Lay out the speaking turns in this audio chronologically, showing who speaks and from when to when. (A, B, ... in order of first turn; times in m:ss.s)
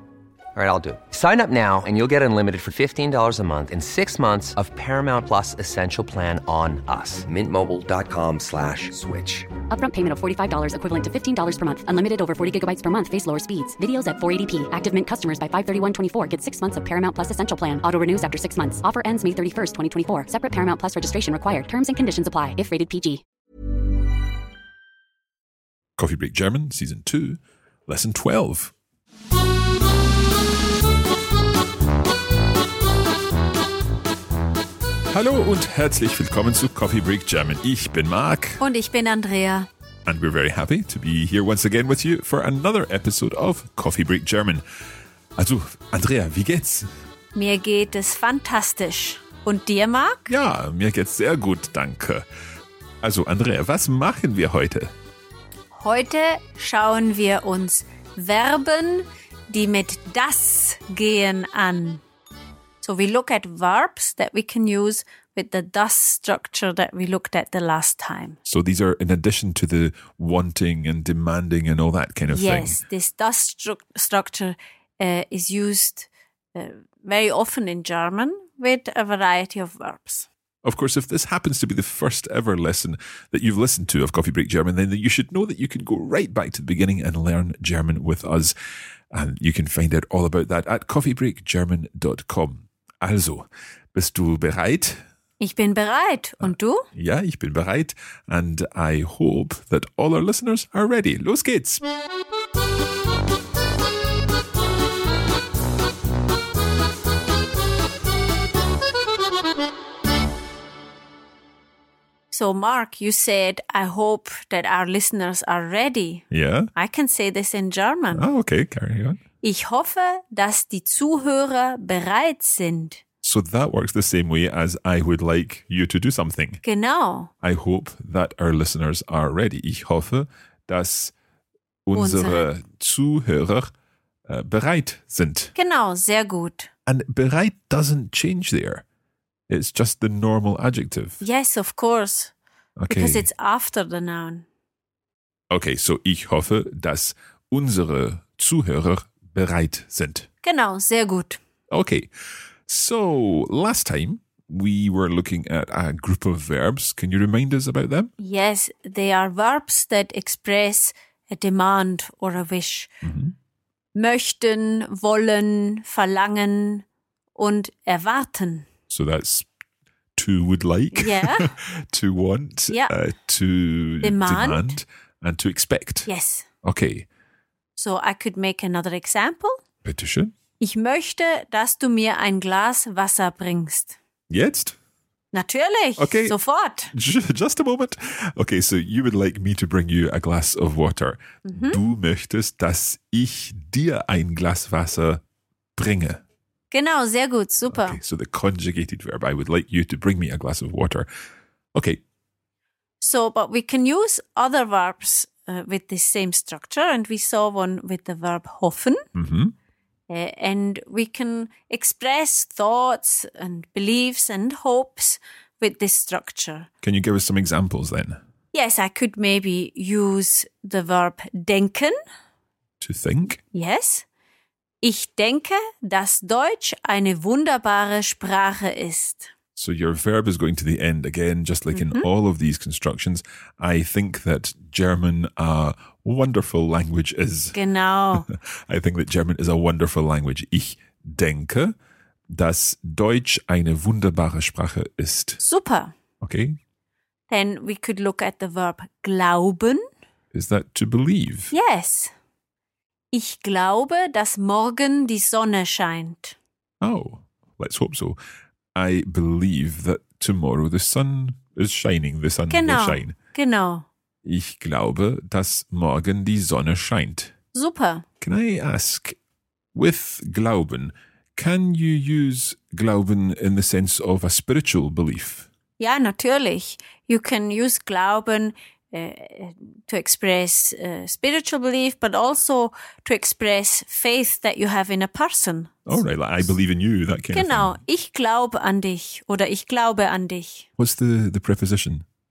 0:00.5-0:09.5 A
0:09.7-0:23.2 B
0:26.0-0:28.7 C
0:35.1-0:38.6 C
0:38.6-0:39.7 D
0:40.0-0:44.6 C
0:45.4-0:46.9 C
0:47.3-0:50.3 D
0:50.3-0:52.2 C
0:53.0-0:54.9 C
0:55.7-1:02.0 D
1:02.8-1:08.4 D
1:08.4-1:12.8 C
1:12.3-1:20.3 D
1:20.6-1:28.5 C
1:29.1-1:35.0 C
1:35.4-1:36.9 D
1:36.4-1:41.8 C
1:52.3-1:56.2 D
1:56.3-1:56.7 C
1:56.7-1:58.2 D
1:58.1-1:59.2 C
1:59.4-2:03.0 D
2:03.2-2:06.6 C
2:06.6-2:07.3 D
2:07.4-2:11.1 C
2:11.8-2:13.7 C
2:11.9-2:12.5 D
2:14.3-2:15.5 C
2:15.5-2:16.7 D
2:16.8-2:18.8 C
2:19.5-2:21.2 C
2:21.2-2:22.3 D
2:22.8-2:23.3 C
2:22.9-2:24.4 D
2:25.5-2:30.3 C
2:30.4-2:31.4 D
2:31.7-2:32.1 C
2:32.7-2:38.1 C
2:38.2-2:42.9 D
2:43.0-2:43.3 C
2:43.9-2:48.7 D
2:48.9-2:49.5 C
2:50.2-2:56.1 C
2:50.9-2:51.5 D
2:54.0-2:54.8 D
2:56.0-2:56.5 D
2:56.6-2:57.1 C
2:57.8-2:59.6 D
2:59.8-3:00.3 C
3:00.6-3:04.0 D
3:04.3-3:04.8 C
3:05.3-3:06.9 D
3:06.0-3:06.4 C
3:06.9-3:15.2 C
3:11.4-3:11.8 D
3:15.8-3:16.2 C
3:16.7-3:18.0 D
3:17.7-3:21.1 C
3:21.7-3:22.0 C
3:23.0-3:29.0 D
3:29.1-3:29.5 C
3:30.1-3:36.7 D
3:36.8-3:38.2 C
3:38.5-3:42.0 D
3:42.8-3:43.4 C
3:43.5-3:44.0 D
3:44.8-3:49.3 D
3:49.6-3:57.6 C
3:51.7-3:52.0 D
3:57.5-3:58.3 D
3:58.1-4:01.7 C
4:02.3-4:05.4 C
4:05.4-4:05.9 D
4:06.2-4:06.6 C
4:07.3-4:09.8 D
4:10.3-4:11.5 C
4:11.5-4:12.1 D
4:13.1-4:16.4 D
4:16.8-4:18.2 C
4:18.7-4:23.1 C
4:22.5-4:23.9 D
4:24.2-4:27.3 C
4:27.5-4:28.0 D
4:28.2-4:29.2 C
4:29.7-4:35.5 C
4:35.8-4:46.0 D
4:45.8-4:47.8 C
4:47.3-4:50.7 D
4:50.8-4:52.0 C